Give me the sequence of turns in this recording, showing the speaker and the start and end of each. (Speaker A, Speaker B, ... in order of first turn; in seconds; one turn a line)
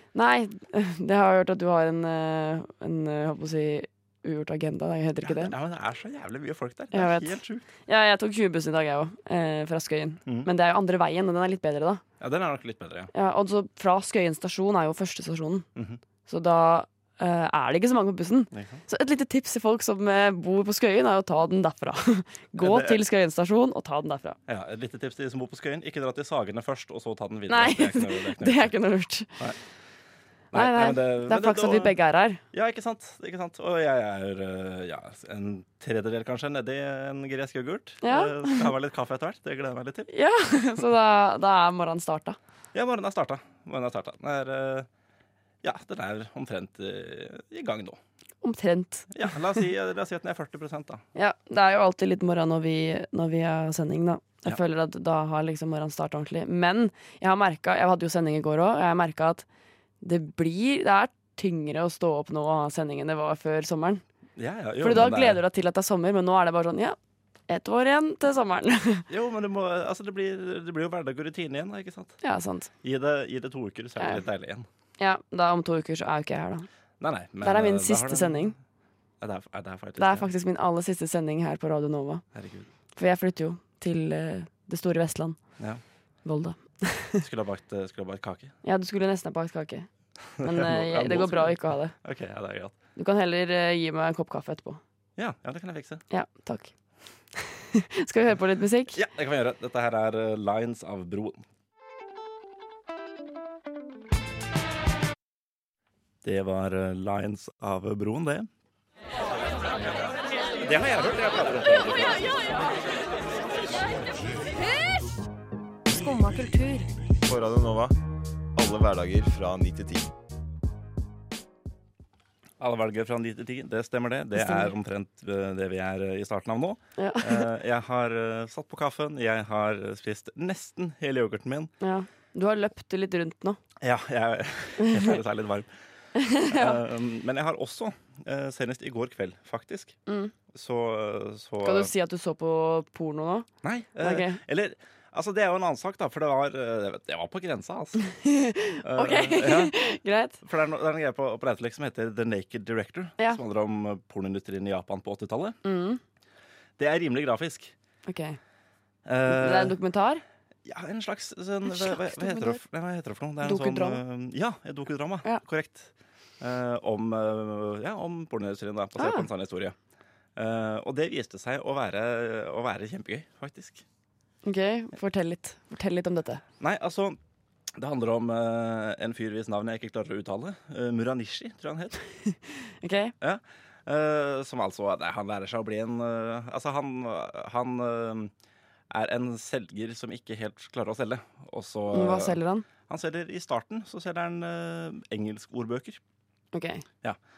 Speaker A: 0.1-5.5
Speaker B: 5.2-7.7
Speaker A: 6.9-12.0
Speaker B: 12.2-13.1
Speaker A: 13.1-15.7
Speaker B: 15.8-16.0
Speaker A: 16.2-24.4
Speaker B: 18.5-18.8
Speaker B: 22.6-23.0
Speaker B: 24.5-28.7
Speaker A: 27.5-29.4
Speaker B: 30.5-31.9
Speaker A: 30.5-32.4
Speaker B: 32.5-40.1
Speaker A: 38.0-38.7
Speaker A: 40.1-42.4
Speaker B: 42.7-44.9
Speaker B: 45.6-48.0
Speaker A: 48.4-49.1
Speaker B: 49.1-51.0
Speaker A: 51.1-59.5
Speaker A: 60.0-64.0
Speaker B: 64.4-65.4
Speaker A: 64.8-67.0
Speaker A: 67.5-69.1
Speaker B: 69.1-72.2
Speaker A: 72.2-72.7
Speaker B: 72.8-74.7
Speaker A: 75.0-76.7
Speaker B: 77.0-78.5
Speaker A: 77.4-78.5
Speaker B: 79.2-80.3
Speaker A: 80.0-82.2
Speaker B: 82.3-82.7
Speaker A: 83.0-85.4
Speaker A: 86.2-87.2
Speaker B: 87.2-88.5
Speaker A: 88.6-89.9
Speaker B: 90.3-92.7
Speaker A: 90.4-91.9
Speaker A: 93.0-94.8
Speaker B: 95.2-96.0
Speaker A: 96.1-96.7
Speaker A: 97.3-99.0
Speaker B: 98.9-101.4
Speaker B: 106.2-108.5
Speaker B: 110.6-112.3
Speaker A: 116.0-116.9
Speaker C: 117.2-117.9
Speaker C: 118.5-120.1
Speaker B: 122.6-131.7
Speaker A: 124.3-124.7
Speaker A: 127.0-127.5
Speaker A: 131.8-133.6
Speaker B: 133.8-135.7
Speaker A: 134.8-135.2
Speaker A: 136.2-136.8
Speaker B: 136.5-139.9
Speaker A: 140.1-140.3
Speaker B: 140.5-141.9
Speaker A: 141.6-143.5
Speaker B: 143.6-148.0
Speaker A: 144.0-144.4
Speaker A: 148.0-150.4
Speaker B: 148.8-149.7
Speaker B: 150.4-155.6
Speaker A: 155.6-156.0
Speaker B: 156.8-157.7
Speaker A: 158.1-158.4
Speaker B: 159.1-159.8
Speaker A: 159.3-160.2
Speaker B: 160.6-169.7
Speaker A: 161.7-162.6
Speaker A: 163.4-164.0
Speaker A: 169.0-169.3
Speaker B: 170.3-173.8
Speaker A: 174.4-176.4
Speaker B: 176.6-177.2
Speaker B: 177.8-182.0
Speaker A: 182.2-183.1
Speaker B: 183.2-188.3
Speaker B: 188.9-196.0
Speaker A: 191.9-192.6
Speaker A: 196.5-196.8